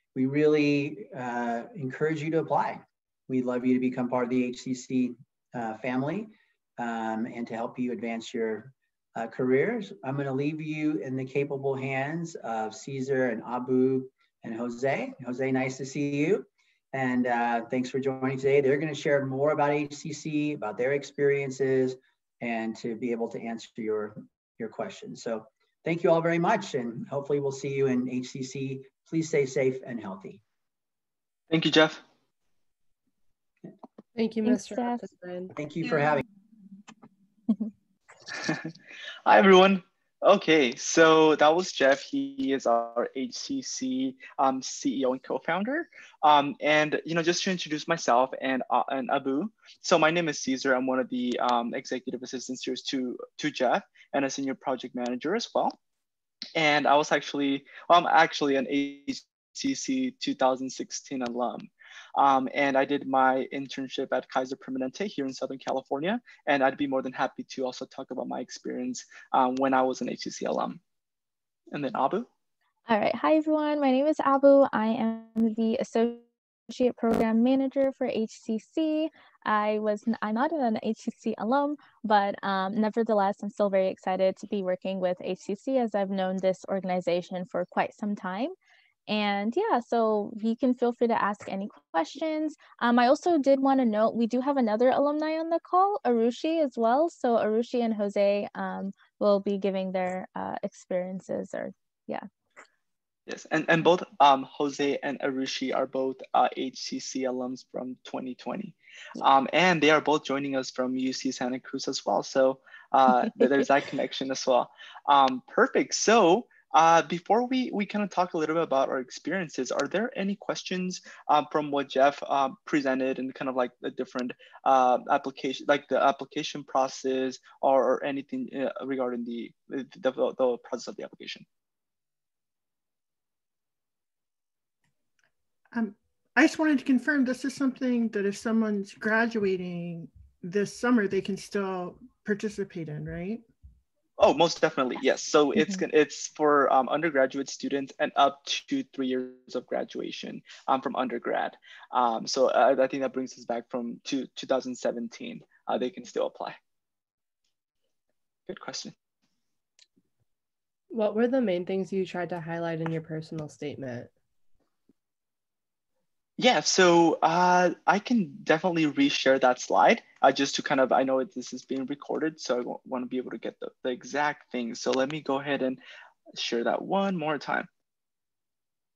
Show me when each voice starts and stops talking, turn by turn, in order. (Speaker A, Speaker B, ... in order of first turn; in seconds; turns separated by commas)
Speaker A: 0.1-30.4, Speaker B: 31.5-32.0, Speaker C: 34.1-35.5, Speaker D: 34.4-35.0, Speaker A: 35.5-36.2, Speaker B: 38.4-38.6, Speaker B: 39.2-55.8, Speaker B: 56.5-70.8, Speaker B: 71.7-72.3, Speaker D: 72.9-88.5, Speaker D: 89.1-102.2, Speaker B: 103.3-131.4, Speaker E: 135.7-143.4, Speaker B: 144.2-156.6, Speaker B: 158.5-158.9, Speaker C: 160.9-164.1, Speaker B: 166.4-175.8, Speaker B: 176.3-177.7